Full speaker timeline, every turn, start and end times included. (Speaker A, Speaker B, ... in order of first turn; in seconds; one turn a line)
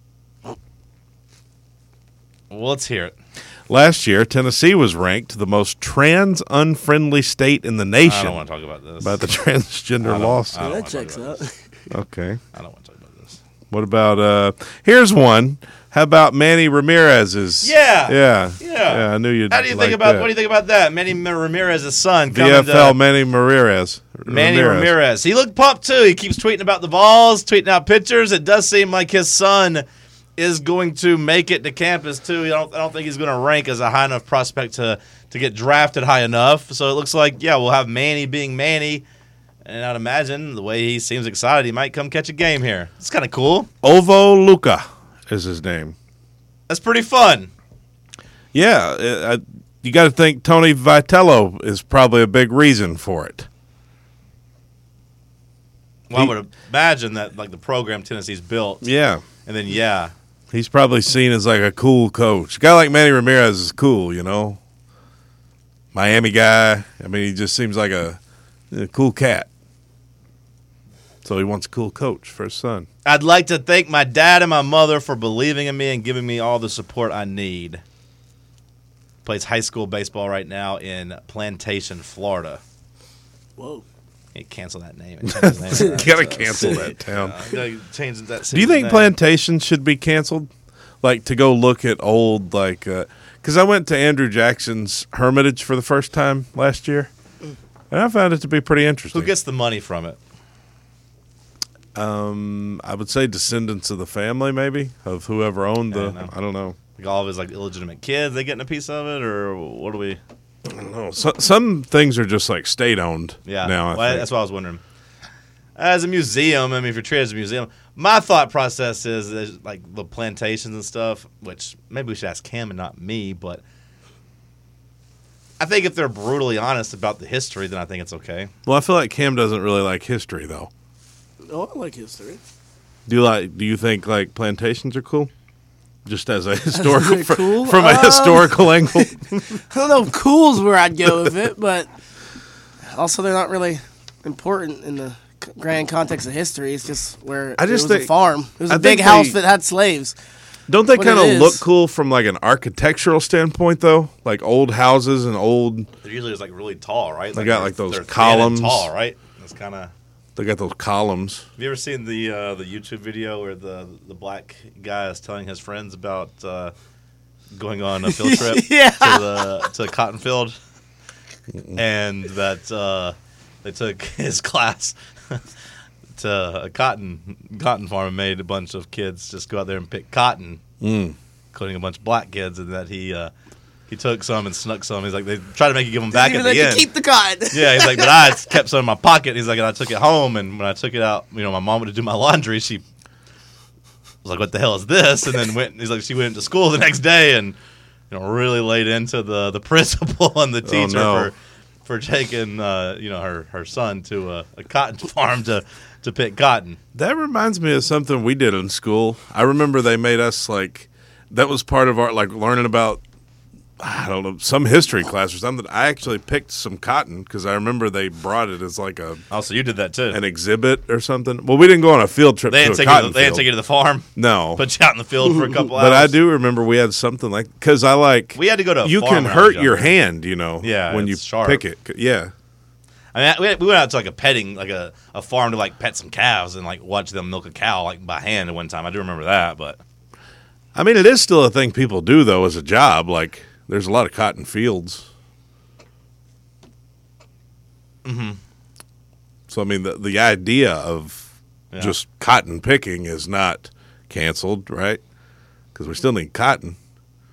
Speaker A: 2.5-3.1
Speaker B: 3.7-8.4
Speaker A: 8.0-9.2
Speaker B: 9.0-10.8
Speaker A: 10.0-11.4
Speaker C: 10.6-11.5
Speaker B: 11.9-12.4
Speaker A: 12.5-13.4
Speaker B: 13.7-20.3
Speaker A: 17.6-23.0
Speaker B: 22.3-24.9
Speaker A: 24.3-29.8
Speaker A: 30.4-39.0
Speaker A: 39.6-43.7
Speaker B: 43.8-45.9
Speaker A: 46.7-47.5
Speaker B: 48.5-53.5
Speaker A: 56.1-58.8
Speaker B: 58.8-59.2
Speaker A: 59.4-60.1
Speaker B: 60.5-64.6
Speaker B: 65.9-68.2
Speaker B: 68.7-69.5
Speaker B: 71.2-72.9
Speaker A: 73.0-77.8
Speaker A: 79.2-82.6
Speaker C: 83.6-83.8
Speaker A: 84.3-89.1
Speaker B: 85.2-87.4
Speaker C: 86.4-86.7
Speaker B: 88.5-90.5
Speaker B: 91.0-97.1
Speaker B: 97.9-99.3
Speaker A: 99.1-100.2
Speaker B: 101.9-106.8
Speaker A: 105.9-106.3
Speaker A: 106.9-110.2
Speaker B: 110.7-114.3
Speaker A: 113.4-114.8
Speaker A: 115.8-123.6
Speaker A: 125.6-128.5
Speaker B: 128.7-130.7
Speaker C: 131.5-132.4
Speaker B: 133.1-135.3
Speaker B: 136.0-139.6
Speaker C: 136.7-139.1
Speaker C: 139.7-141.9
Speaker B: 141.0-141.3
Speaker C: 142.9-150.1
Speaker B: 147.6-148.1
Speaker B: 148.7-149.4
Speaker B: 150.7-155.9
Speaker C: 150.9-151.6
Speaker A: 156.0-159.9
Speaker B: 157.3-158.9
Speaker B: 160.3-161.4
Speaker A: 161.6-166.7
Speaker A: 167.5-170.6
Speaker C: 168.1-169.5
Speaker B: 171.5-171.8
Speaker A: 171.7-175.4
Speaker A: 176.2-180.6
Speaker B: 180.8-181.2
Speaker A: 181.5-183.3
Speaker A: 183.9-186.9
Speaker C: 186.1-188.4
Speaker A: 187.5-192.8
Speaker A: 194.2-197.6
Speaker A: 198.1-206.8
Speaker B: 200.6-201.3
Speaker B: 206.9-213.0
Speaker B: 213.8-219.2
Speaker A: 219.3-220.2
Speaker B: 220.1-223.5
Speaker A: 222.5-226.2
Speaker B: 224.1-224.6
Speaker B: 225.7-232.3
Speaker A: 228.3-230.0
Speaker A: 230.6-231.6
Speaker A: 233.1-239.8
Speaker B: 240.7-245.1
Speaker A: 248.0-248.4
Speaker B: 249.5-255.0
Speaker B: 255.7-256.8